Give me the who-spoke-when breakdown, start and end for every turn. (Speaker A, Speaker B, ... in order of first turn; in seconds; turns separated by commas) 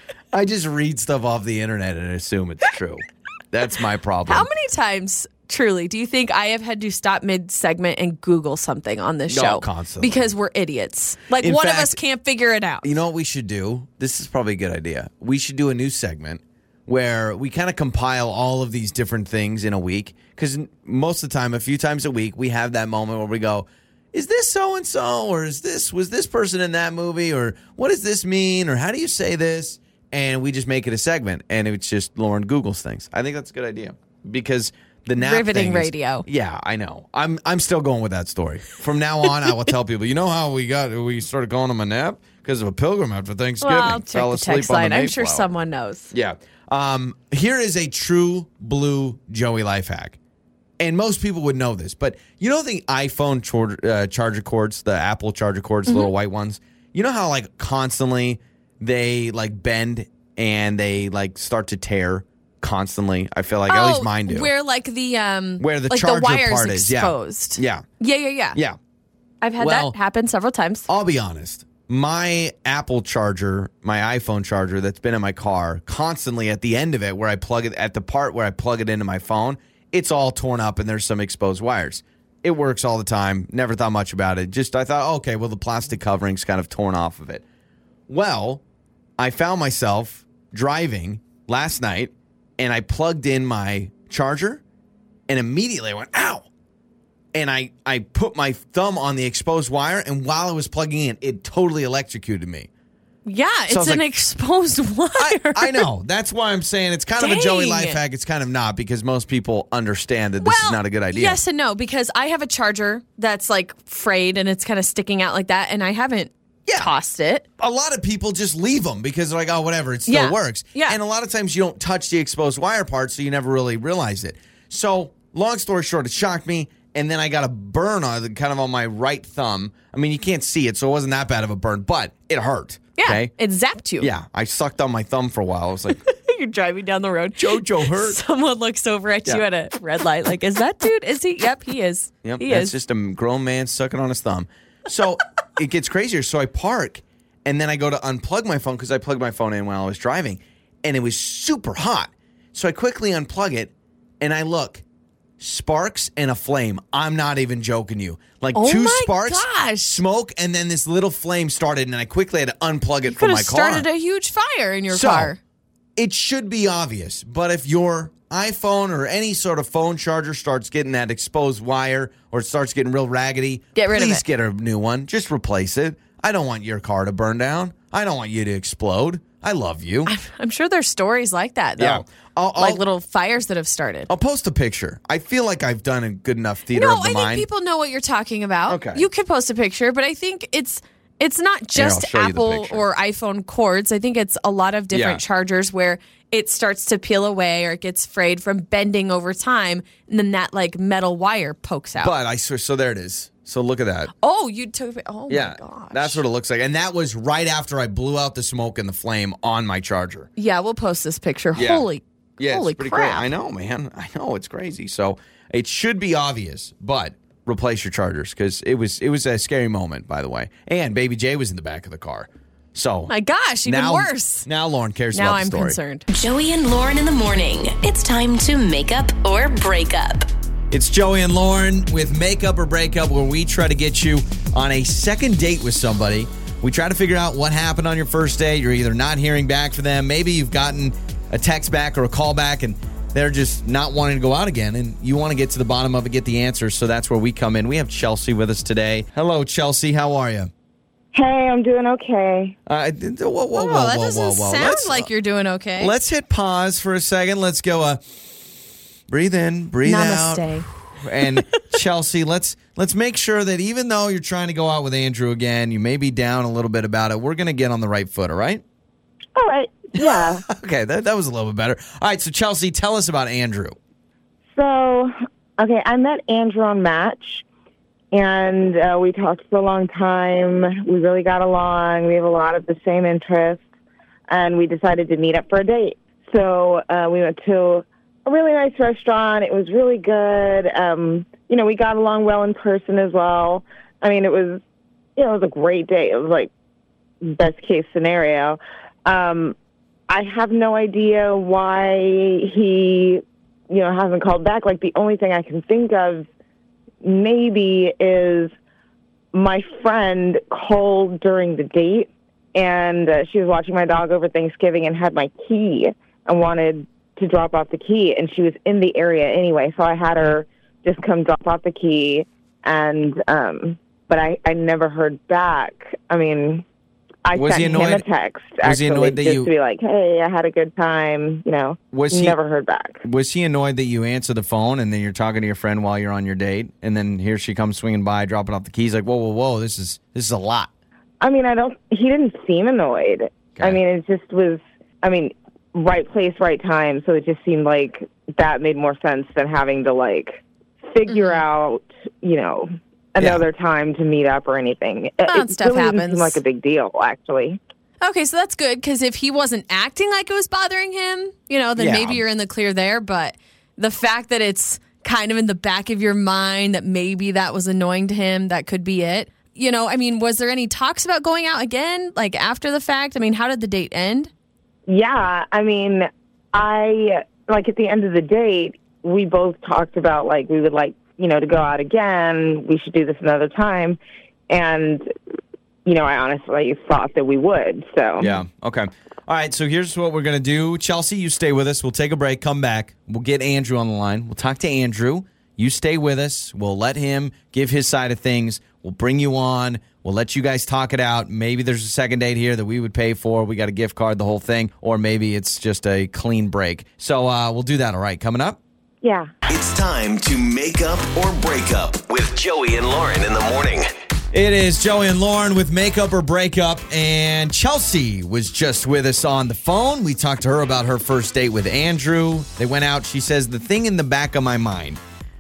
Speaker A: 0.3-4.5, Speaker B: 4.3-12.9, Speaker A: 9.3-10.3, Speaker A: 11.4-12.0, Speaker A: 12.8-45.5, Speaker B: 35.2-36.3, Speaker B: 43.6-46.1, Speaker A: 46.1-50.2, Speaker A: 50.8-64.5, Speaker B: 55.9-56.1, Speaker B: 63.7-68.6, Speaker A: 65.6-67.8, Speaker B: 69.4-70.9, Speaker A: 69.6-70.0, Speaker A: 70.9-87.4, Speaker A: 88.1-88.6, Speaker A: 89.2-94.6, Speaker A: 95.3-96.5, Speaker A: 97.3-102.7, Speaker B: 103.3-105.9, Speaker A: 103.7-104.0, Speaker A: 105.2-111.4, Speaker B: 107.2-108.0, Speaker B: 110.4-117.5, Speaker A: 117.6-133.3, Speaker B: 120.1-121.0, Speaker B: 133.0-134.1, Speaker A: 134.0-136.0, Speaker B: 135.9-142.7, Speaker A: 137.4-138.2, Speaker A: 142.2-154.8, Speaker A: 155.4-163.9, Speaker B: 158.6-160.0, Speaker B: 163.1-165.4, Speaker A: 164.9-165.4, Speaker A: 166.0-180.1, Speaker B: 173.8-174.2, Speaker B: 180.1-182.1, Speaker A: 181.8-182.8, Speaker B: 182.6-184.1, Speaker A: 184.1-187.5, Speaker B: 186.7-202.1, Speaker A: 188.7-189.1, Speaker A: 191.8-192.8, Speaker A: 194.9-195.2, Speaker A: 202.0-204.1, Speaker B: 204.2-206.2, Speaker A: 205.3-210.3, Speaker B: 210.4-213.3, Speaker A: 211.6-211.9, Speaker A: 212.4-223.1, Speaker B: 223.1-224.5, Speaker A: 223.7-225.8, Speaker B: 225.1-226.1, Speaker C: 226.1-230.3, Speaker A: 230.7-250.5, Speaker D: 251.1-252.6, Speaker A: 252.7-255.1, Speaker B: 253.6-255.9, Speaker A: 255.8-258.2, Speaker A: 259.1-268.6, Speaker B: 259.9-260.7, Speaker D: 269.4-270.4, Speaker A: 270.0-273.8, Speaker D: 274.5-277.4, Speaker D: 278.1-283.6, Speaker D: 284.3-294.6, Speaker D: 295.2-296.5, Speaker D: 297.2-299.6, Speaker D: 300.1-306.3, Speaker D: 307.0-308.5, Speaker D: 309.3-326.6, Speaker D: 327.2-333.0, Speaker A: 327.4-328.0, Speaker A: 328.6-329.5, Speaker A: 331.9-332.4, Speaker A: 333.0-340.7, Speaker D: 341.2-357.6, Speaker B: 351.1-351.4, Speaker A: 353.2-353.4, Speaker B: 355.3-356.4, Speaker B: 358.0-374.3, Speaker A: 361.8-362.2, Speaker D: 374.9-385.1, Speaker D: 385.9-388.4, Speaker A: 388.2-408.6, Speaker D: 409.0-409.3, Speaker E: 409.5-413.9, Speaker A: 414.3-425.0